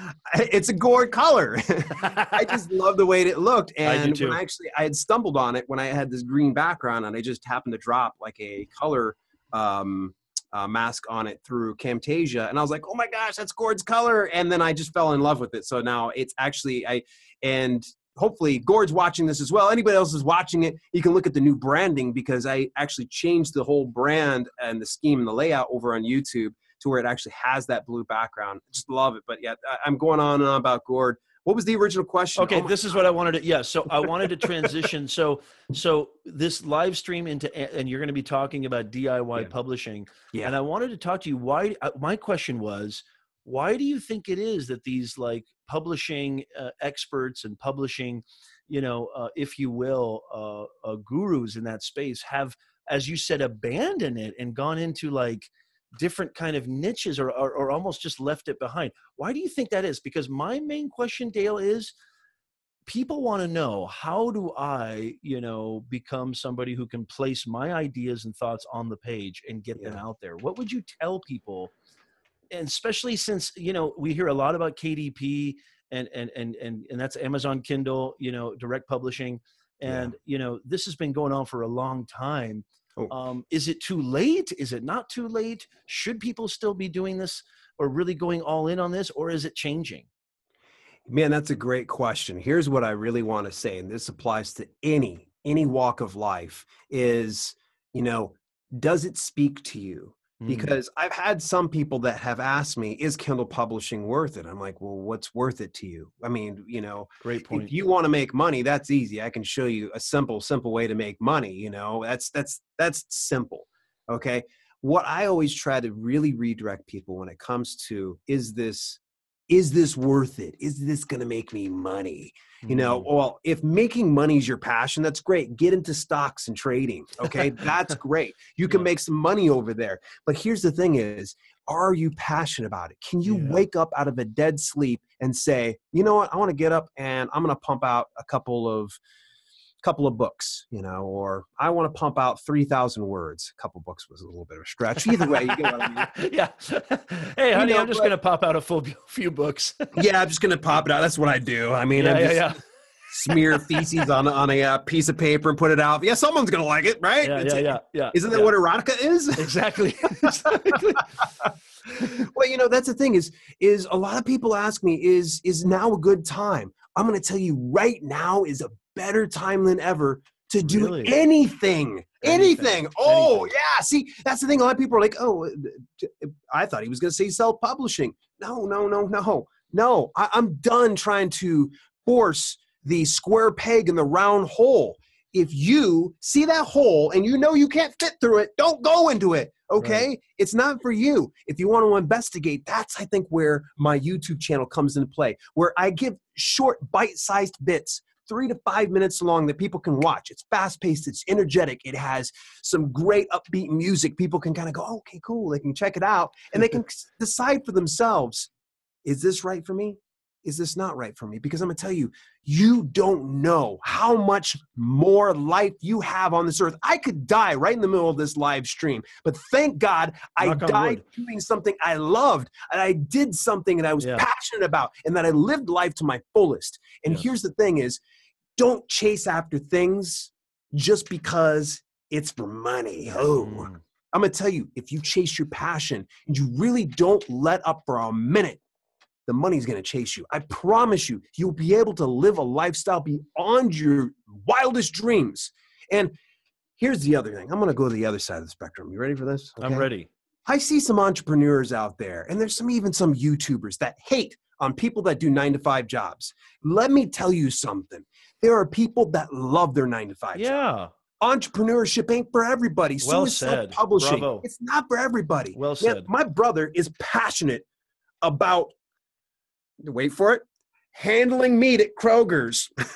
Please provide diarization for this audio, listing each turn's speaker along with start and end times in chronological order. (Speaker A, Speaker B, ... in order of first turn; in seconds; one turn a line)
Speaker A: 0.3-33.0
Speaker B: 2.0-2.5
Speaker B: 3.8-4.4
Speaker B: 32.4-61.9
Speaker A: 34.0-34.7
Speaker B: 62.9-71.7
Speaker B: 72.5-90.1
Speaker A: 79.8-80.1
Speaker A: 91.1-139.0
Speaker B: 100.4-100.7
Speaker B: 107.2-107.7
Speaker B: 122.6-123.1
Speaker B: 133.2-133.6
Speaker A: 139.8-146.1
Speaker B: 145.0-150.0
Speaker A: 147.5-148.1
Speaker A: 149.9-152.6
Speaker B: 151.9-152.6
Speaker A: 153.1-159.6
Speaker B: 153.3-154.0
Speaker B: 157.2-158.5
Speaker B: 159.4-161.1
Speaker A: 160.2-208.5
Speaker B: 170.6-171.2
Speaker B: 172.2-173.5
Speaker B: 189.8-190.1
Speaker A: 209.0-228.0
Speaker B: 220.4-221.0
Speaker A: 228.6-238.6
Speaker B: 233.1-233.8
Speaker A: 239.2-246.1
Speaker A: 246.8-249.9
Speaker B: 249.6-250.1
Speaker A: 250.5-260.5
Speaker B: 260.3-260.9
Speaker A: 261.2-267.6
Speaker B: 263.0-264.4
Speaker B: 265.5-266.1
Speaker A: 268.2-268.7
Speaker A: 269.8-272.7